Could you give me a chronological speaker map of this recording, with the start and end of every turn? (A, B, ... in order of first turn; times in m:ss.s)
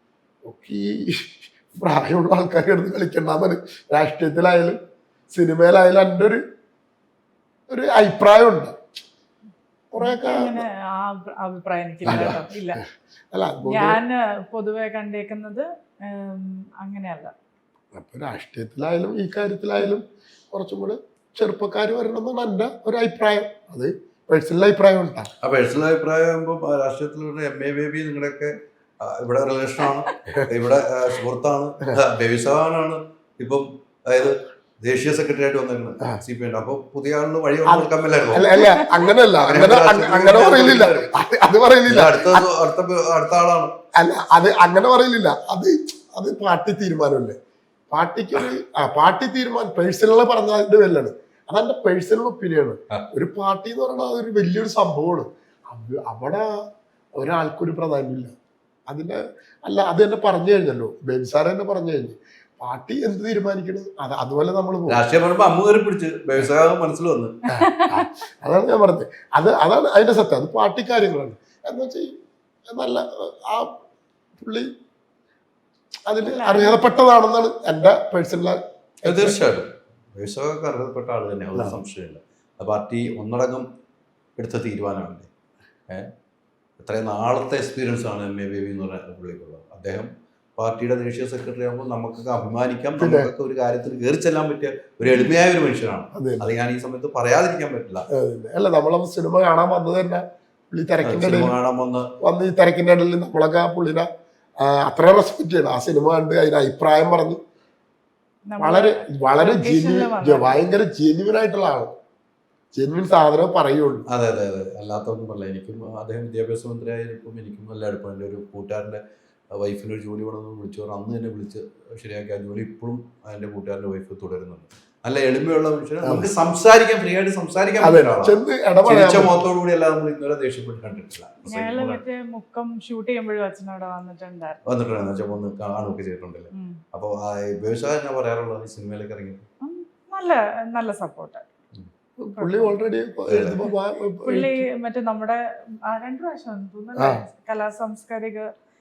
0:00.5-0:04.8 A
0:05.3-0:06.4 A
0:07.7-0:08.8 A
0:09.9-0:10.6 A
0:10.0-0:12.8 B
0:12.0-0:14.0 A
0:13.7-0:17.3 B
0:17.9-0:25.3 A
0:25.4-0:41.1 C
0:37.6-0:42.4 A
0:41.9-0:43.7 C
0:44.0-0:47.3 A
0:47.9-0:56.5 A
0:57.2-0:58.3 A
0:58.9-1:05.0 A
1:04.9-1:07.3 C
1:07.5-1:12.1 A
1:12.7-1:13.7 A
1:14.4-1:14.7 A
1:16.1-1:19.4 A
1:16.2-1:16.8 B
1:19.0-1:23.6 C
1:24.4-1:25.3 C
1:26.8-1:38.1 C
1:33.0-1:33.3 A
1:36.1-1:36.4 A
1:38.1-1:41.5 A
1:41.0-1:42.1 C
1:42.2-1:44.1 A
1:44.6-1:47.4 A
1:48.5-1:50.6 B
1:48.6-1:51.9 A
1:52.7-1:54.0 A
1:54.1-1:59.0 C
1:59.5-2:12.0 C
2:06.0-2:06.3 A
2:07.8-2:09.3 A
2:11.5-2:14.6 B
2:14.6-2:19.4 C
2:16.5-2:16.8 B
2:19.6-2:21.4 B
2:22.2-2:24.6 A
2:22.4-2:22.8 B
2:23.3-2:23.6 C
2:24.2-2:25.4 B
2:25.9-2:28.4 B
2:27.0-2:27.2 A